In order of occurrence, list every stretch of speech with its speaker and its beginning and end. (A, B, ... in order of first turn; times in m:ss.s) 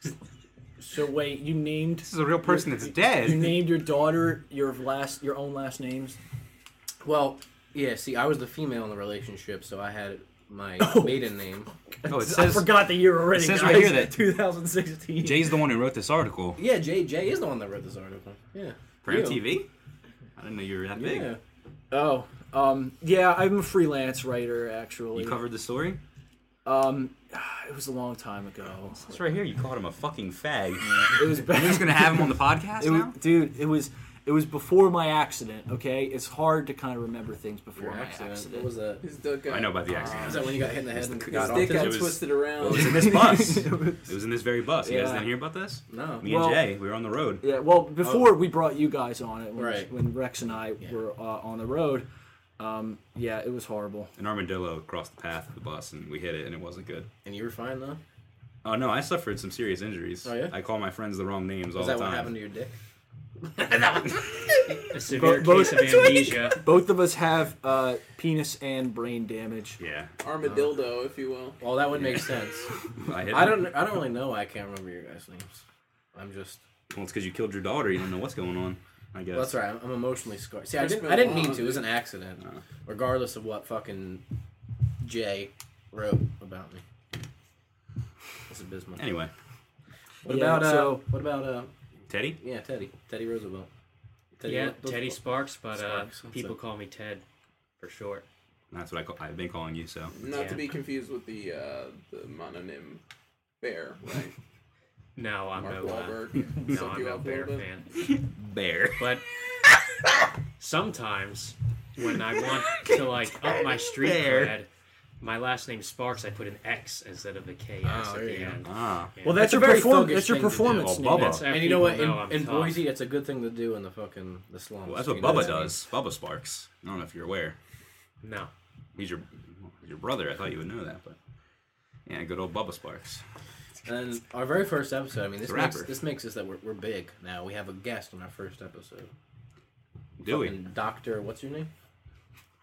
0:00.8-0:06.2 A
0:02.0-0:03.6 B
0:07.0-0:11.7 C
0:10.8-0:11.3 A
0:12.0-0:15.5 A
0:12.0-0:14.2 B
0:15.2-0:16.6 B
0:16.6-0:19.4 C
0:19.0-0:19.7 B
0:20.4-0:21.3 B
0:21.0-0:21.4 C
0:21.9-0:25.4 A
0:25.1-0:26.0 B
0:26.6-0:29.1 A
0:28.9-0:33.2 B
0:30.8-0:38.7 A
0:37.8-0:39.0 C
0:39.0-0:40.3 D
0:39.5-0:47.4 B
0:40.1-0:42.1 C
0:41.3-0:43.4 D
0:42.6-0:44.1 A
0:44.8-0:45.3 A
0:45.9-0:46.3 C
0:46.2-0:46.6 A
0:47.4-0:52.1 A
0:48.0-0:48.4 C
0:49.6-0:49.9 C
0:52.6-0:54.1 A
0:54.2-0:57.1 B
0:57.2-0:58.0 C
0:58.6-1:02.3 B
1:00.2-1:00.5 C
1:01.7-1:02.7 C
1:04.8-1:06.6 E
1:05.0-1:09.8 A
1:09.8-1:10.1 B
1:10.2-1:11.6 D
1:11.6-1:12.7 C
1:12.0-1:12.2 B
1:13.0-1:13.7 B
1:13.3-1:15.6 C
1:16.1-1:16.6 C
1:16.9-1:19.6 B
1:19.3-1:24.2 C
1:20.7-1:21.9 D
1:25.0-1:26.8 C
1:28.5-1:29.0 C
1:29.0-1:29.3 B
1:30.2-1:31.0 A
1:30.2-1:31.7 C
1:32.1-1:32.4 B
1:32.4-1:33.7 C
1:34.4-1:35.2 C
1:34.4-1:37.2 E
1:35.7-1:36.6 C
1:37.8-1:38.2 E
1:38.7-1:40.1 B
1:40.1-1:43.0 D
1:40.3-1:40.6 E
1:43.6-1:44.4 D
1:45.2-1:48.0 E
1:45.6-1:47.6 D
1:48.0-1:49.1 B
1:49.0-1:49.2 E
1:50.6-1:54.7 E
1:52.5-1:54.5 B
1:55.2-1:59.5 E
1:57.8-1:58.6 C
1:58.6-1:59.1 B
1:59.2-2:01.5 A
1:59.3-2:05.8 C
2:00.7-2:01.5 B
2:01.1-2:02.9 E
2:04.8-2:07.6 B
2:08.2-2:08.5 E
2:09.0-2:11.2 B
2:12.0-2:13.2 B
2:13.8-2:19.1 C
2:15.4-2:16.0 B
2:20.2-2:20.6 B
2:20.2-2:21.7 C